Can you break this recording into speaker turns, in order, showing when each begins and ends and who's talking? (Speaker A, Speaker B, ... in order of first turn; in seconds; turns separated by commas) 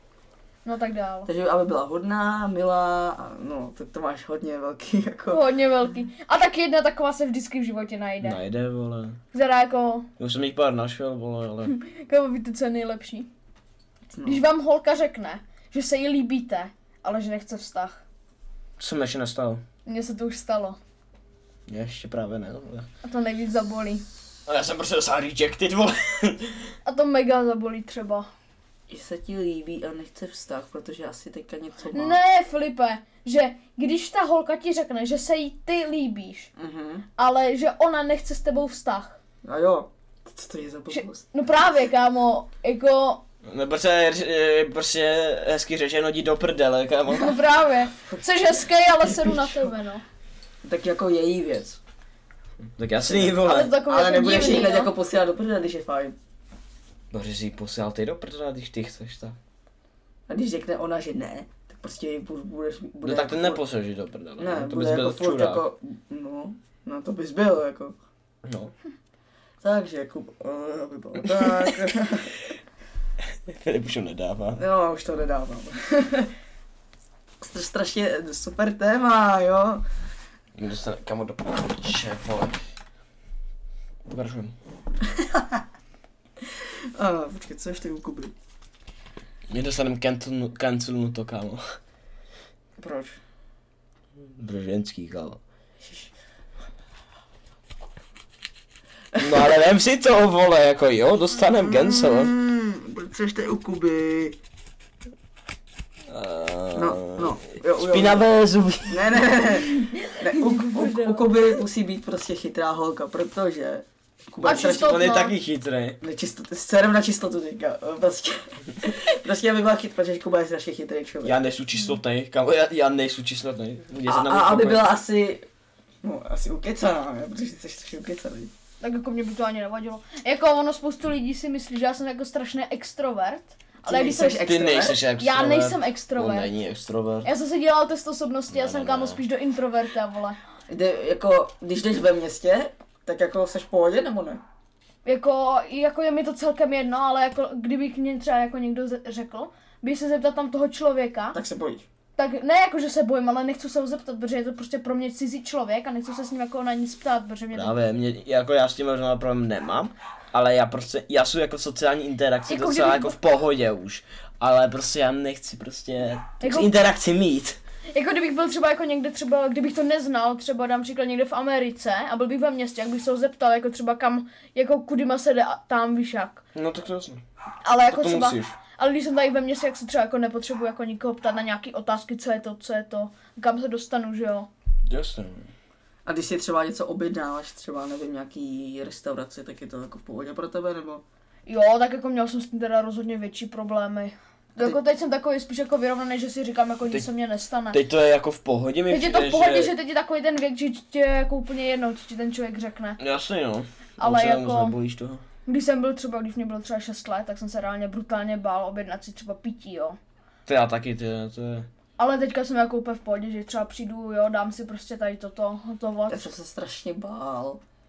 Speaker A: 0.7-1.3, Speaker B: 1.3-5.4, Speaker A: 5.3-8.4, Speaker C: 8.2-9.2, Speaker A: 9.3-10.1, Speaker C: 10.2-11.7, Speaker A: 11.7-13.3, Speaker B: 14.2-14.4, Speaker A: 14.2-18.0, Speaker C: 18.8-19.6, Speaker A: 19.9-20.8, Speaker C: 21.7-22.9, Speaker A: 23.0-24.0, Speaker C: 24.5-26.7, Speaker A: 26.9-28.3, Speaker B: 28.9-32.2, Speaker A: 31.9-36.5, Speaker B: 36.6-37.0, Speaker A: 37.2-39.2, Speaker B: 39.5-41.3, Speaker A: 40.9-43.2, Speaker C: 43.4-47.4, Speaker A: 47.1-50.0, Speaker B: 50.6-51.8, Speaker C: 52.8-53.8, Speaker A: 53.3-54.9, Speaker B: 53.9-56.2, Speaker C: 57.1-59.4, Speaker B: 60.3-63.6, Speaker C: 63.0-65.6, Speaker B: 64.4-68.0, Speaker C: 68.4-68.7, Speaker B: 69.6-72.4, Speaker C: 71.2-71.9, Speaker C: 73.2-74.6, Speaker B: 74.6-76.3, Speaker B: 77.4-79.8, Speaker C: 80.6-82.6, Speaker C: 84.1-84.5, Speaker B: 85.1-85.6, Speaker B: 86.5-88.3, Speaker C: 89.5-91.7, Speaker B: 92.8-93.2, Speaker C: 94.3-95.4, Speaker B: 95.8-96.1, Speaker C: 99.2-102.3, Speaker B: 101.6-104.4, Speaker C: 106.1-109.2, Speaker B: 106.7-108.2, Speaker B: 108.9-115.0, Speaker A: 109.8-111.3, Speaker A: 114.4-115.4, Speaker C: 114.5-116.0, Speaker B: 116.0-121.4, Speaker C: 121.2-124.9, Speaker B: 124.1-125.5, Speaker B: 126.0-128.5, Speaker A: 128.8-136.5, Speaker B: 133.9-135.0, Speaker C: 134.4-137.3, Speaker A: 137.2-140.4, Speaker C: 138.5-139.2, Speaker B: 140.7-144.4, Speaker A: 145.1-151.4, Speaker B: 151.3-151.9, Speaker A: 152.2-157.7, Speaker C: 157.5-167.6, Speaker A: 162.5-163.2, Speaker A: 166.4-166.7, Speaker A: 167.9-176.4, Speaker C: 176.6-177.2, Speaker A: 177.6-184.5, Speaker C: 177.9-178.6, Speaker C: 184.9-185.5, Speaker B: 186.1-191.0, Speaker A: 191.5-197.8, Speaker C: 197.7-199.7, Speaker A: 198.9-203.0, Speaker C: 203.0-205.2, Speaker A: 204.0-204.8, Speaker A: 205.5-210.0, Speaker C: 210.5-211.7, Speaker A: 212.0-216.3, Speaker B: 216.1-217.6